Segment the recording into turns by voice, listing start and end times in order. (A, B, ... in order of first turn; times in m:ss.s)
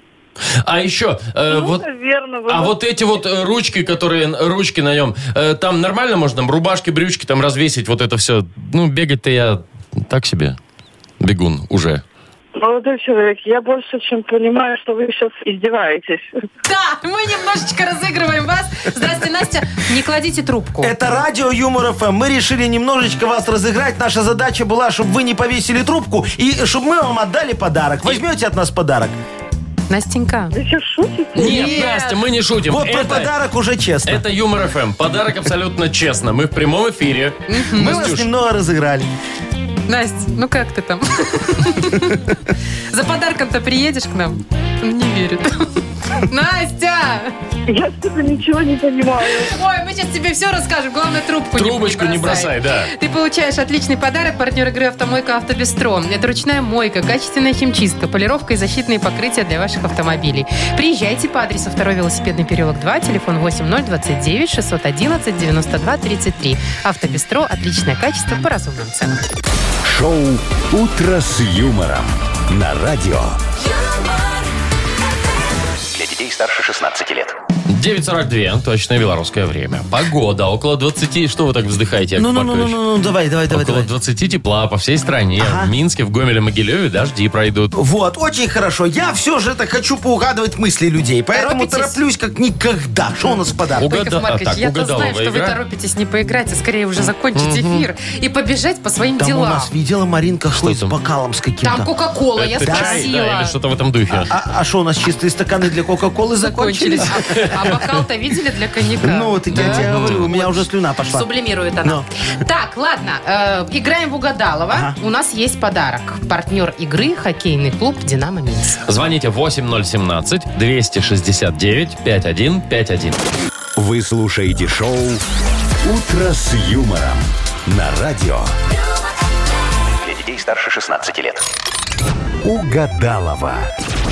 0:00.6-0:01.9 A
0:01.5-0:02.8 B
0:02.5-0:10.6 A
0:11.2-0:12.0 A
0:12.6-0:16.3 B
0:16.6-0:20.9 C
0:20.8-0:29.1 D
0:29.9-0:30.5 C
0:30.5-0:32.0 B
0:31.4-0:33.3 A
0:31.4-0:32.1 C
0:32.6-0:34.2 D
0:34.0-0:38.2 A
0:37.5-0:38.2 C
0:37.7-0:39.1 D
0:39.9-0:42.3 C
0:42.9-0:47.3 C
0:47.7-0:49.6 B
0:49.4-1:09.2 C
0:51.6-0:52.9 A
1:09.8-1:13.4 E
1:15.9-1:17.4 F
1:17.7-1:22.8 A
1:22.2-1:23.9 D
1:23.5-1:27.8 A
1:25.4-1:25.7 D
1:27.8-1:33.9 D
1:31.3-1:32.0 C
1:33.2-1:39.7 C
1:33.8-1:35.6 A
1:37.3-1:37.8 A
1:39.2-1:41.9 D
1:40.5-1:40.9 A
1:41.6-1:43.5 C
1:42.4-1:44.3 A
1:42.6-1:43.1 D
1:44.1-1:47.7 D
1:46.4-1:58.8 C
1:47.2-1:47.8 A
1:49.0-1:51.3 D
1:49.5-1:50.3 A
1:58.9-2:03.2 A
2:03.8-2:05.2 E
2:05.8-2:08.5 E
2:10.0-2:11.4 F
2:12.4-2:13.6 E